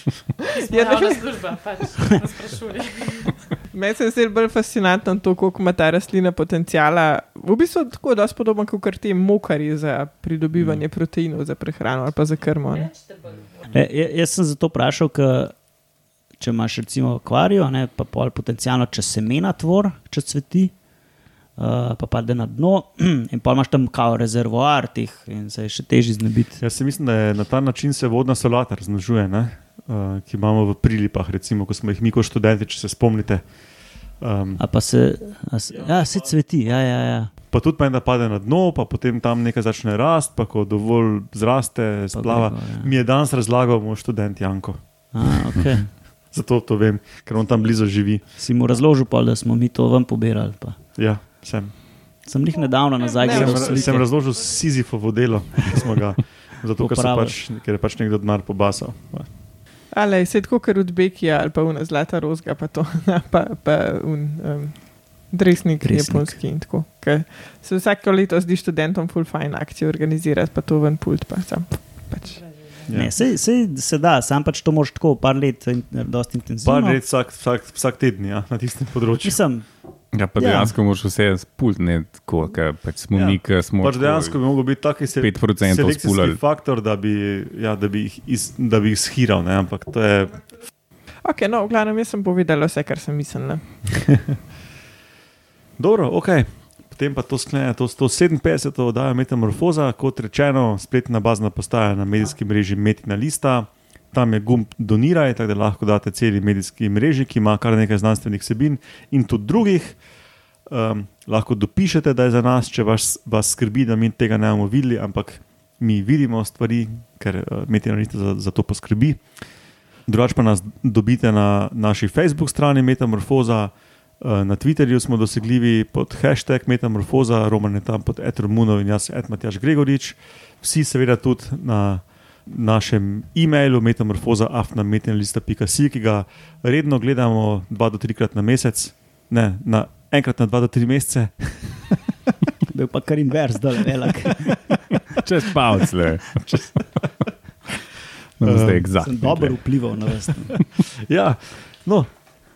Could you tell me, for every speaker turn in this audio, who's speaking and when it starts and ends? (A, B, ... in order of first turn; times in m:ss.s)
0:00.4-0:01.3 A
0:00.5-0:03.5 B
0:03.7-0:13.0 A
0:13.7-0:15.5 C
0:16.4-0:20.7 C
0:21.6-0:26.6 C
0:26.6-0:33.5 D
0:34.1-0:34.6 D
0:34.6-0:37.3 C
0:35.7-0:36.3 D
0:37.5-0:45.4 D
0:42.1-0:42.9 C
0:45.1-0:45.9 C
0:46.2-0:48.2 D
0:48.3-0:50.8 C
0:51.0-0:51.8 D
0:52.2-0:54.1 C
0:53.2-0:59.3 D
0:53.3-0:53.8 A
0:56.8-0:57.4 C
0:59.9-1:12.4 A
1:05.8-1:06.4 C
1:12.9-1:17.0 C
1:16.6-1:19.4 D
1:19.2-1:19.7 C
1:20.1-1:26.4 E
1:20.4-1:20.7 C
1:23.1-1:30.5 D
1:31.2-1:34.0 A
1:35.8-1:50.0 D
1:50.6-2:22.0 D
2:22.7-2:24.6 C
2:25.2-2:26.9 E
2:28.4-2:29.6 E
2:28.4-2:28.8 D
2:29.0-2:30.6 C
2:30.9-2:32.1 D